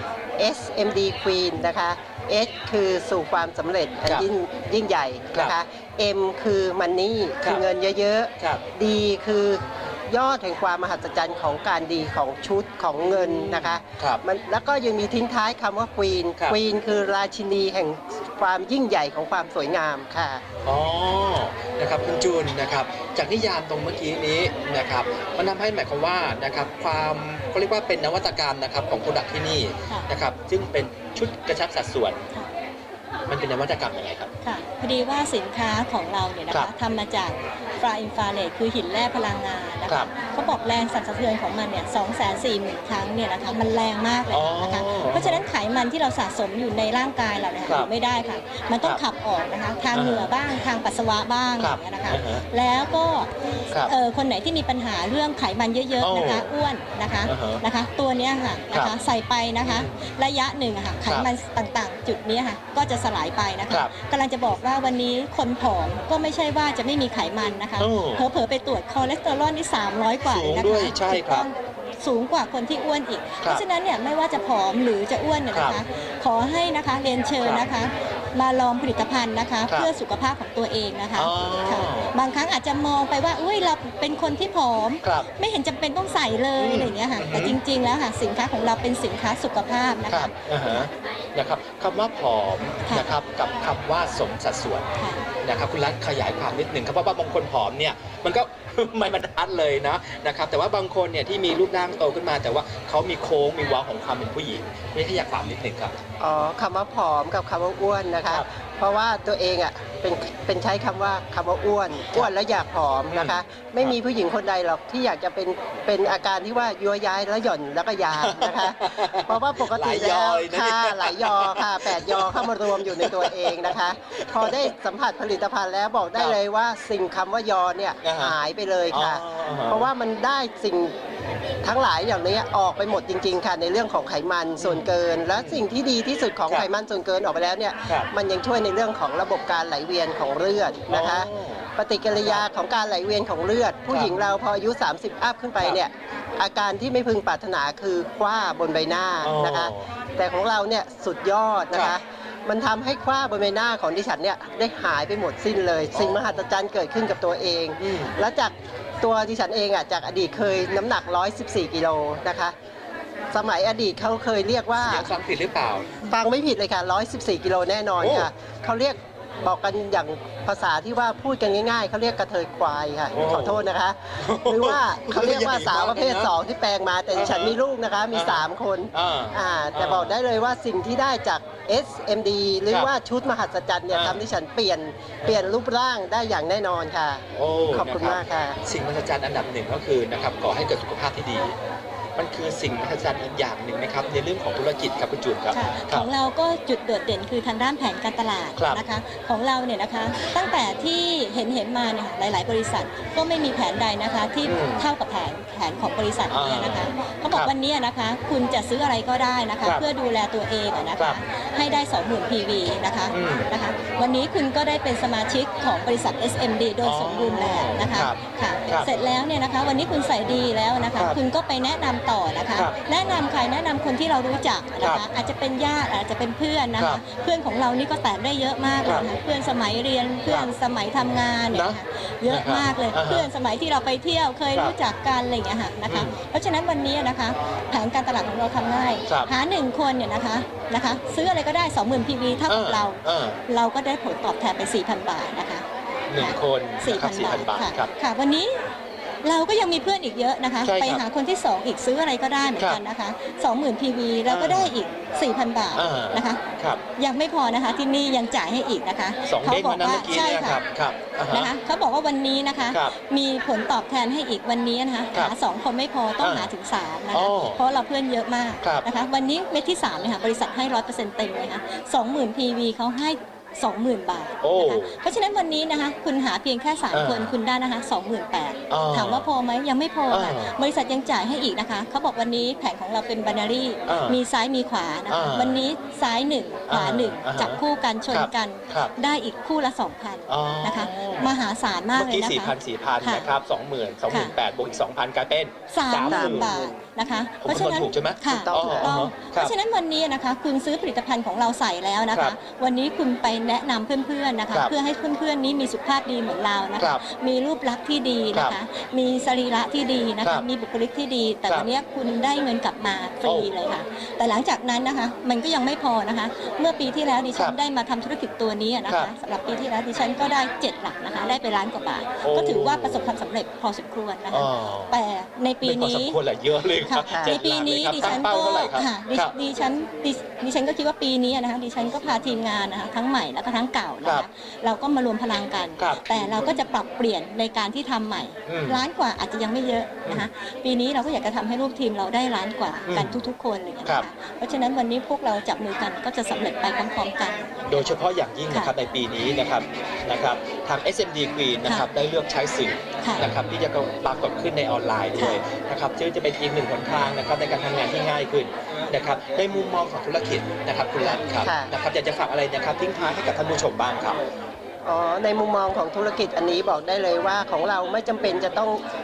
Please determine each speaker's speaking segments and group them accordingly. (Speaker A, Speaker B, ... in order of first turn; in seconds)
Speaker A: 0.4-20.4, 106.2-130.9, 131.6-162.5, 163.3-165.1, 166.1-188.6, 296.1-296.7, 298.2-299.0, 327.1-327.4, 361.0-361.7, 364.8-368.8
Speaker B: 8.4-8.6, 13.0-14.2, 20.6-32.2, 33.3-34.3, 44.3-45.5, 49.9-50.4, 51.6-52.4, 56.0-56.5, 57.2-57.6, 59.6-59.9, 67.8-68.2, 70.2-71.5, 75.5-75.8, 77.4-77.7, 81.1-82.1, 86.6-87.6, 90.1-94.9, 95.4-106.0, 113.1-113.9, 118.1-124.7, 128.0-128.3, 128.9-129.9, 134.6-135.6, 140.9-142.4, 143.9-144.1, 149.2-149.9, 155.9-156.4, 157.8-158.2, 164.8-166.0, 168.0-168.3, 173.1-173.7, 174.2-176.3, 177.1-177.6, 178.1-180.2, 183.9-184.2, 187.3-191.6, 192.2-196.1, 198.6-198.8, 204.4-204.9, 206.3-207.5, 213.1-213.5, 216.8-218.9, 224.8-225.0, 228.8-229.1, 231.5-233.3, 235.9-236.2, 239.1-239.3, 242.5-243.4, 246.1-247.9, 250.6-251.0, 254.3-254.7, 255.8-256.8, 259.2-261.5, 266.2-266.5, 267.1-267.6, 274.4-275.0, 276.9-277.3, 278.7-279.3, 280.1-280.5, 283.9-284.2, 285.1-285.6, 286.7-288.9, 290.3-291.3, 291.9-296.6, 297.4-299.5, 313.2-313.5, 322.2-323.2, 324.3-324.9, 325.6-329.3, 335.8-336.6, 338.4-338.8, 342.9-343.2, 347.7-364.2
Speaker C: 34.4-90.9, 95.0-95.2, 195.5-245.6, 246.2-248.6, 249.2-260.6, 261.3-293.3, 294.1-294.3, 295.7-326.2, 326.8-347.5, 351.6-351.9, 353.0-353.3, 355.1-355.4